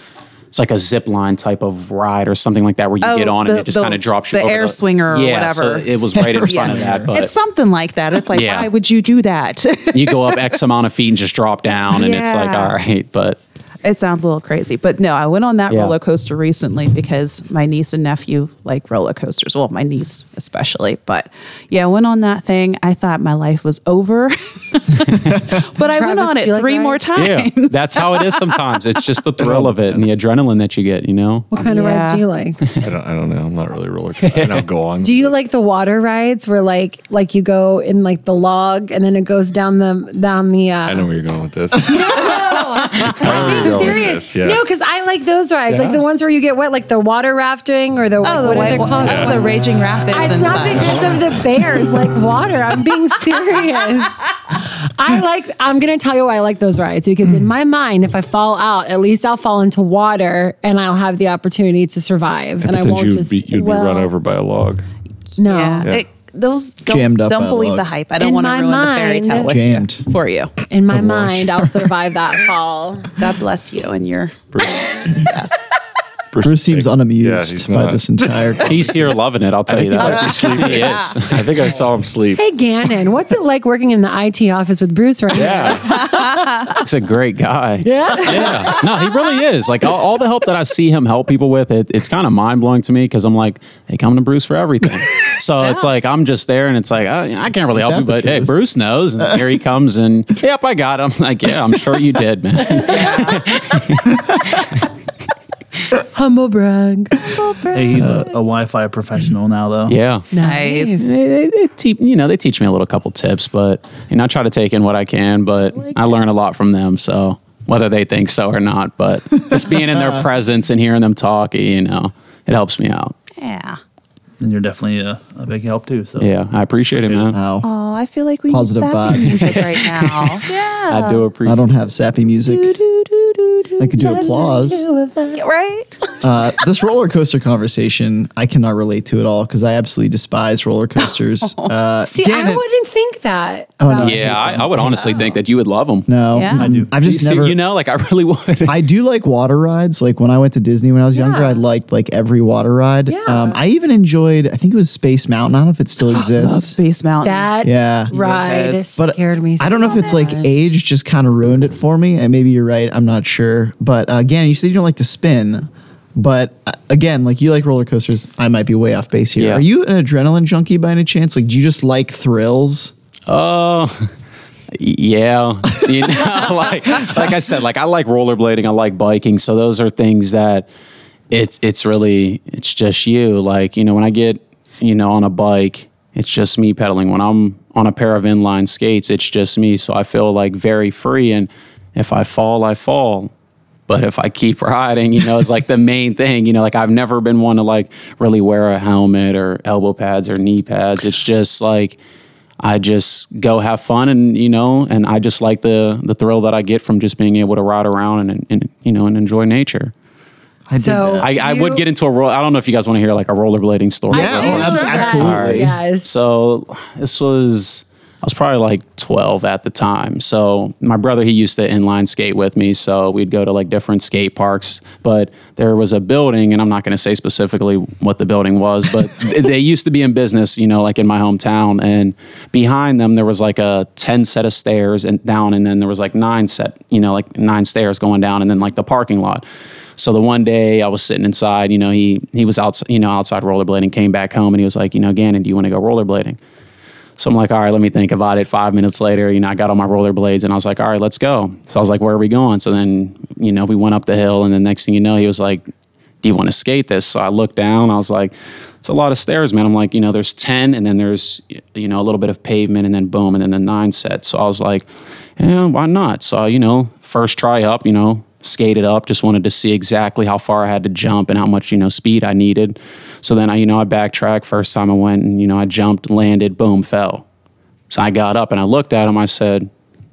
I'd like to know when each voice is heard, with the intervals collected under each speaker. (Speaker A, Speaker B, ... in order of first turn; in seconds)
Speaker A: 0.5-7.3, 8.3-8.7, 9.9-13.4, 15.7-16.0, 27.1-31.5, 34.2-34.6, 78.6-81.6, 86.8-104.8, 109.9-110.3, 111.0-123.1, 126.2-127.4, 129.1-131.7, 144.0-146.1, 147.0-148.8, 169.4-169.6, 173.3-174.1, 174.7-180.7, 181.3-193.3, 193.9-202.0, 202.6-209.9, 211.2-239.4, 240.0-246.4, 247.2-255.6, 256.2-264.9, 265.4-277.2, 277.9-279.7
Speaker B: 3.0-5.9, 6.5-10.5, 11.8-12.7, 13.8-28.6, 31.6-32.2, 48.2-51.1, 63.5-64.1, 65.4-70.5, 73.2-75.7, 86.0-86.7, 102.8-103.5, 107.2-108.3, 110.4-111.0, 123.4-123.8, 127.6-131.2, 132.4-134.3, 135.3-135.9, 141.4-141.7, 146.3-146.7, 156.1-157.5, 158.1-158.8
Speaker C: 6.1-7.1, 66.8-67.9, 69.4-70.1, 76.4-78.9, 97.8-98.5, 108.0-108.3, 127.3-127.7, 128.5-129.7, 131.4-132.7, 133.8-134.8, 136.2-142.6, 143.8-145.3, 146.1-147.6, 148.7-156.7, 157.6-158.1, 159.0-172.9, 210.7-211.3, 214.1-215.7
Speaker D: 25.7-27.0, 31.5-32.6, 35.0-41.1, 41.8-63.5, 65.4-65.9, 68.2-69.5, 70.7-73.1, 82.3-86.8, 87.8-89.0, 106.1-107.7, 110.3-111.1, 134.0-135.4, 142.0-144.7, 151.1-151.6, 153.1-153.6, 157.2-160.7, 210.7-211.8, 214.1-216.1
Speaker E: 29.4-30.0, 32.8-35.3, 40.9-44.6, 45.7-46.0, 49.0-49.3, 62.6-64.8, 74.5-74.9, 76.3-78.9, 79.7-82.4, 85.3-86.0
Speaker F: 107.7-110.0, 124.4-126.3, 146.5-146.9